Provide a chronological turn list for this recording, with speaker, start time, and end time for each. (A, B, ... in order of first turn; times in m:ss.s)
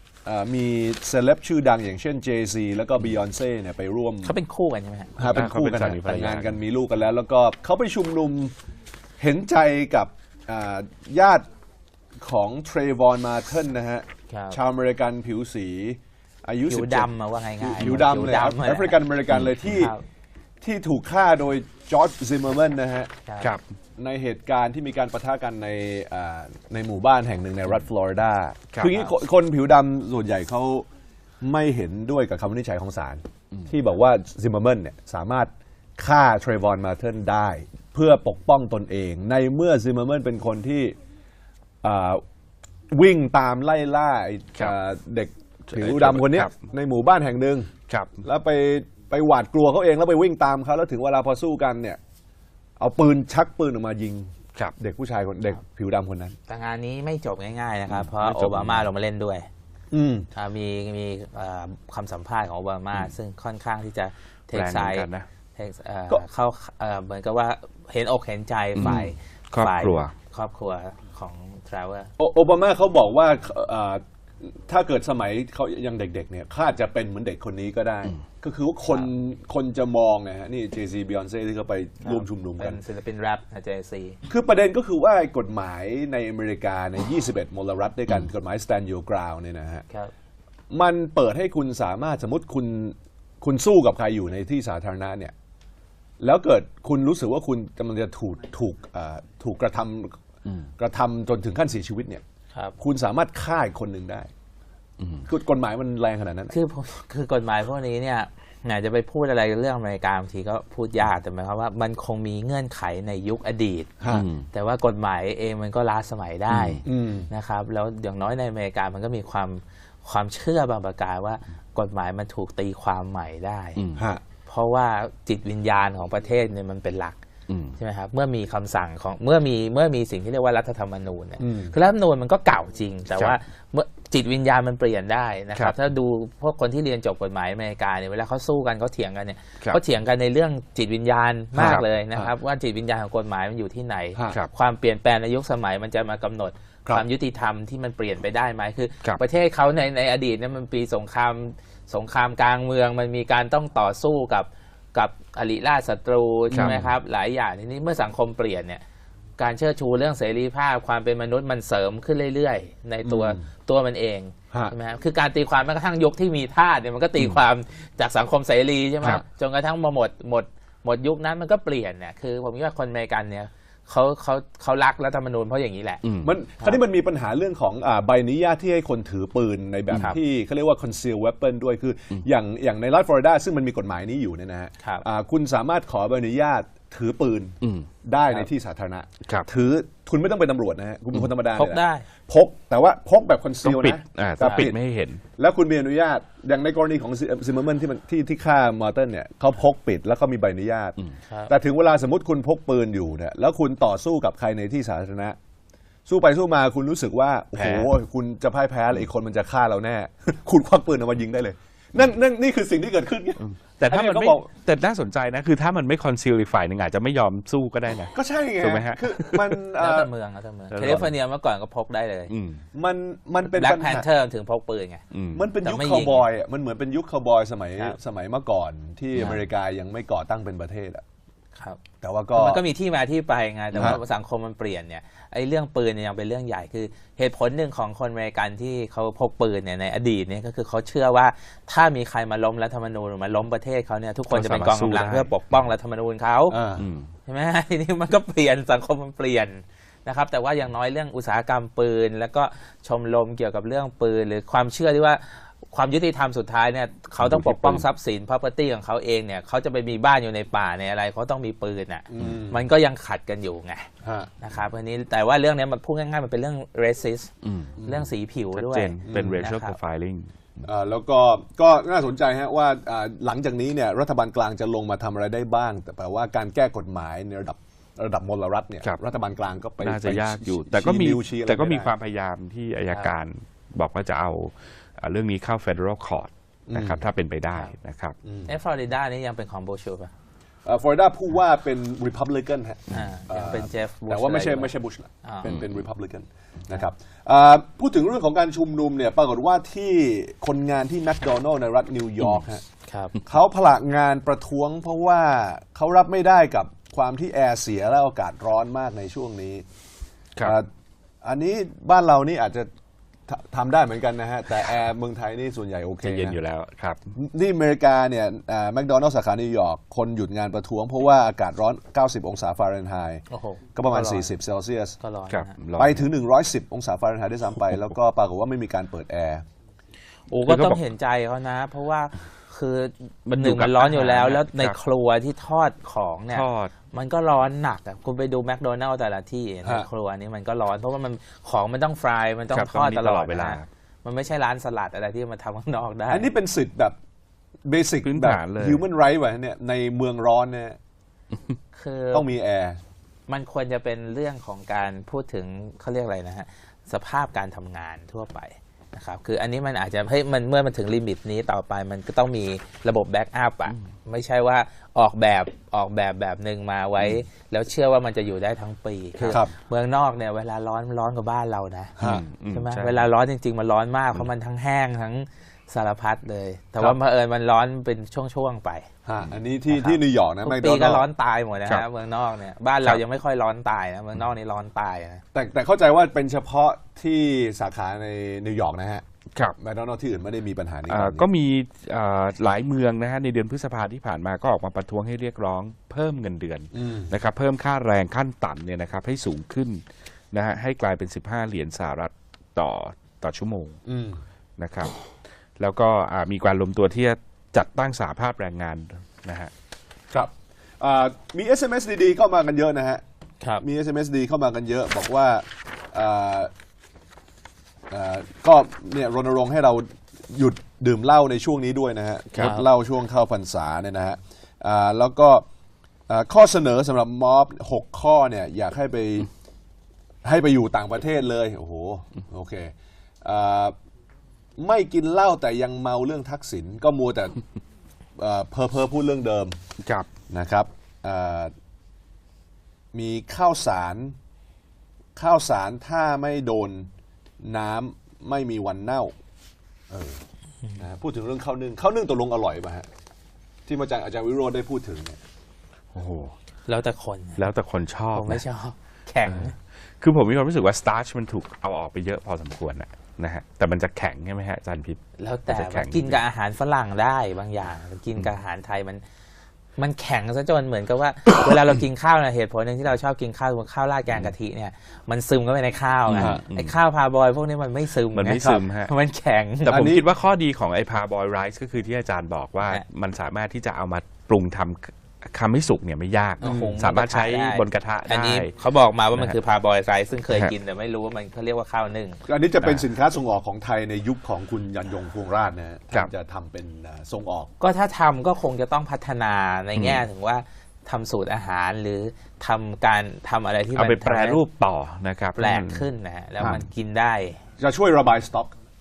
0:00.2-0:04.3 A
0:04.2-0:05.2 B
0:05.2-0:08.5 A
0:05.2-0:06.6 C
0:09.2-0:11.5 A
0:12.2-0:17.1 A
0:14.3-0:14.6 B
0:16.7-0:19.0 B
0:17.6-0:19.9 A
0:19.6-0:20.0 B
0:20.6-0:23.1 A
0:23.2-0:23.5 B
0:24.0-0:30.9 A
0:28.9-0:29.1 B
0:31.4-0:41.0 A
0:41.8-0:42.2 A
0:42.9-0:47.7 A
0:45.7-0:46.5 C
0:47.9-0:48.2 C
0:48.2-0:52.0 A
0:52.8-0:56.4 A
0:56.5-0:59.5 B
0:57.9-0:58.8 C
0:59.9-1:00.3 A
1:00.4-1:12.1 B
1:04.5-1:05.3 C
1:08.8-1:10.1 C
1:12.2-1:22.8 A
1:22.0-1:24.2 B
1:24.3-1:29.8 A
1:30.7-1:35.3 A
1:36.2-1:40.2 A
1:40.8-1:42.2 A
1:42.8-1:44.3 A
1:45.2-1:46.5 A
1:46.5-1:53.9 B
1:54.0-1:54.2 A
1:54.1-1:54.5 C
1:54.5-2:03.8 B
1:56.5-1:56.8 C
1:56.8-1:57.3 A
2:03.8-2:04.0 C
2:03.9-2:04.2 A
2:04.4-2:07.2 B
2:07.5-2:07.8 C
2:07.8-2:38.8 B
2:11.4-2:11.8 A
2:13.1-2:13.4 C
2:21.6-2:21.8 C
2:21.6-2:22.3 A
2:36.5-2:36.8 C
2:36.5-2:36.9 A
2:39.4-2:56.0 B
2:43.0-2:43.4 A
2:56.0-2:56.3 C
2:56.2-3:14.8 A
3:07.6-3:07.9 C
3:11.5-3:12.1 B
3:13.6-3:15.2 C
3:15.4-3:21.0 A
3:21.3-3:21.5 B
3:21.5-3:25.4 A
3:26.1-3:34.5 A
3:27.6-3:27.9 C
3:33.5-3:39.6 C
3:38.1-3:40.1 A
3:39.8-3:42.3 B
3:40.7-3:41.1 C
3:40.8-3:41.1 A
3:42.3-3:42.6 C
3:42.7-3:44.1 A
3:43.5-3:45.0 B
3:45.1-3:45.4 C
3:45.3-3:51.0 A
3:45.6-3:46.2 B
3:52.0-3:52.6 A
3:52.3-4:06.6 B
3:53.7-3:54.0 A
4:04.3-4:05.3 C
4:06.5-4:06.9 A
4:06.8-4:07.1 C
4:07.2-4:23.9 B
4:17.2-4:17.8 C
4:22.1-4:22.6 A
4:24.0-4:24.3 A
4:24.4-4:27.3 B
4:27.4-4:27.8 C
4:27.8-4:28.1 A
4:27.8-4:29.8 B
4:28.5-4:30.6 C
4:29.0-4:29.4 A
4:30.6-4:41.9 A
4:39.8-4:48.1 C
4:46.7-4:47.0 A
4:48.2-4:48.6 A
4:48.5-4:50.1 B
4:50.6-5:02.6 A
4:52.9-4:54.7 B
4:55.2-4:55.5 B
5:02.9-5:03.1 B
5:03.2-5:09.6 A
5:10.4-5:10.7 A
5:11.2-5:12.7 A
5:13.3-5:16.4 A
5:16.0-5:17.0 C
5:17.1-5:23.2 A
5:23.3-5:24.3 B
5:23.8-5:25.0 A
5:25.0-5:25.6 B
5:25.3-5:26.0 C
5:25.8-5:29.4 A
5:30.3-5:46.3 B
5:30.4-5:30.8 C
5:33.4-5:34.8 C
5:36.3-5:36.7 C
5:42.5-5:43.7 C
5:46.1-5:46.9 A
5:47.7-5:50.8 A
5:48.0-5:48.8 C
5:51.7-5:52.2 B
5:52.1-5:52.8 A
5:53.3-6:12.0 B
6:12.0-6:12.2 A
6:12.0-6:13.1 C
6:12.5-6:18.9 B
6:19.0-6:21.0 A
6:19.7-6:25.2 B
6:25.3-6:29.0 A
6:29.6-6:31.3 A
6:30.9-6:43.8 C
6:36.7-6:37.1 A
6:43.8-6:44.2 A
6:44.6-6:44.9 C
6:45.6-6:49.5 C
6:50.1-6:53.0 A
6:53.6-6:56.5 A
6:57.9-7:05.4 A
7:02.4-7:02.6 B
7:06.1-7:09.3 A
7:10.2-7:13.8 A
7:14.6-7:17.4 A
7:18.2-7:19.6 A
7:19.8-7:20.1 C
7:20.3-7:21.5 A
7:22.9-7:24.2 A
7:25.2-7:26.9 A
7:27.4-7:29.1 A
7:29.9-7:30.2 A
7:30.8-7:32.9 A
7:33.6-7:35.2 A
7:35.9-7:36.4 C
7:36.7-7:37.5 B
7:37.4-7:38.4 C
7:38.1-7:39.6 B
7:40.0-7:46.2 C
7:45.2-7:49.0 B
7:49.8-7:59.9 B
7:56.1-7:56.7 C
7:56.2-7:56.4 A
7:58.1-7:58.9 C
7:59.6-8:08.5 C
7:59.7-8:00.0 A
8:06.4-8:12.2 B
8:06.4-8:06.8 A
8:10.3-8:10.5 C
8:12.2-8:17.5 A
8:17.6-8:24.4 B
8:19.8-8:20.0 C
8:23.8-8:25.9 C
8:25.4-8:27.4 B
8:26.4-8:26.6 A
8:27.6-8:28.5 A